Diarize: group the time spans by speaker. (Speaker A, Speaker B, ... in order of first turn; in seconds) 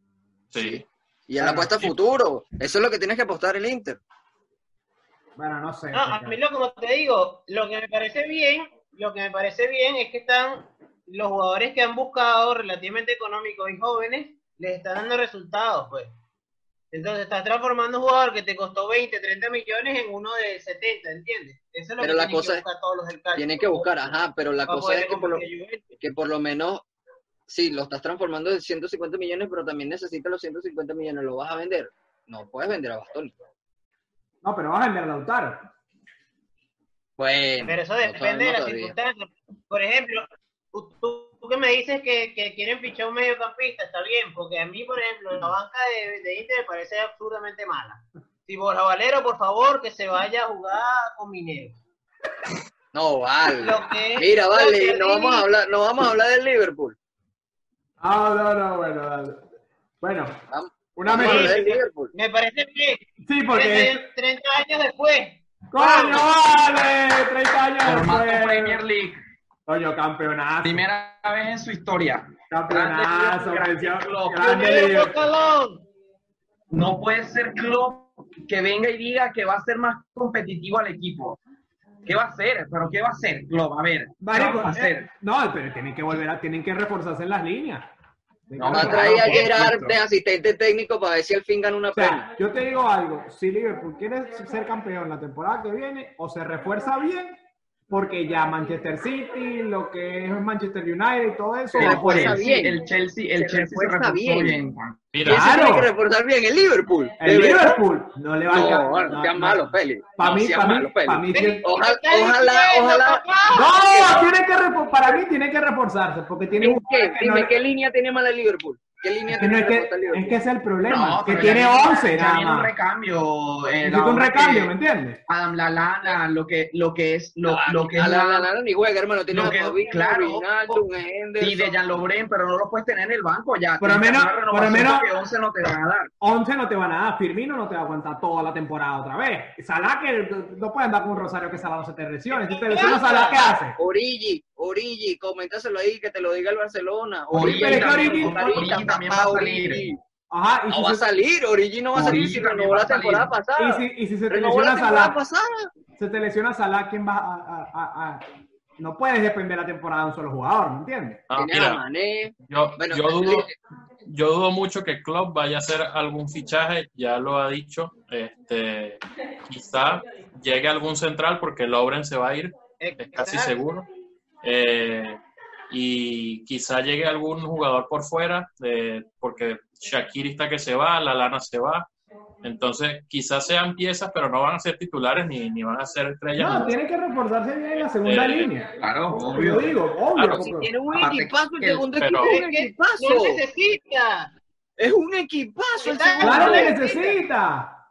Speaker A: 0.5-0.8, 105.1-105.5, 161.3-161.8, 162.4-163.5, 164.0-173.9, 174.4-181.9, 182.4-186.7, 188.0-188.5, 190.1-190.5, 192.0-192.4
Speaker B: 0.6-4.0, 22.0-22.6, 23.3-25.4, 26.0-26.8, 27.5-33.4, 37.2-38.9, 52.9-57.0, 60.5-62.1, 88.6-92.2, 101.8-102.8, 103.3-104.6, 105.2-107.8, 108.5-113.2, 113.8-114.3, 116.6-120.4, 127.4-131.8, 143.8-150.0, 150.7-155.7, 161.3-163.5, 190.3-193.4, 194.8-196.7
Speaker C: 1.4-1.7, 5.4-6.4, 34.4-35.6, 58.0-59.4, 60.0-60.4, 61.0-61.6, 63.2-64.0, 65.7-68.8, 69.7-70.8, 72.5-75.2, 84.2-87.9, 88.5-89.4, 91.9-97.4, 97.9-102.5, 105.2-105.9, 107.2-111.7, 113.5-117.5, 119.3-122.7, 123.8-125.2, 133.8-135.1, 136.2-143.8, 147.4-148.6, 150.3-151.1, 153.6-155.2, 156.0-158.2, 158.8-161.2, 186.3-190.7, 196.2-197.8
Speaker D: 5.9-16.1, 16.9-23.9, 24.7-25.9, 37.6-51.8, 53.5-55.5, 61.1-66.2, 74.4-75.8, 111.3-114.1, 142.3-143.5, 172.8-173.6, 192.2-194.3, 195.8-197.2
Speaker E: 67.8-69.2, 70.6-74.5, 76.7-81.4, 82.0-85.1, 88.6-90.0, 101.7-105.1, 120.9-124.7, 125.3-128.5, 129.3-130.8, 131.4-136.1, 147.3-149.8, 151.9-153.3, 188.8-189.8, 190.9-191.9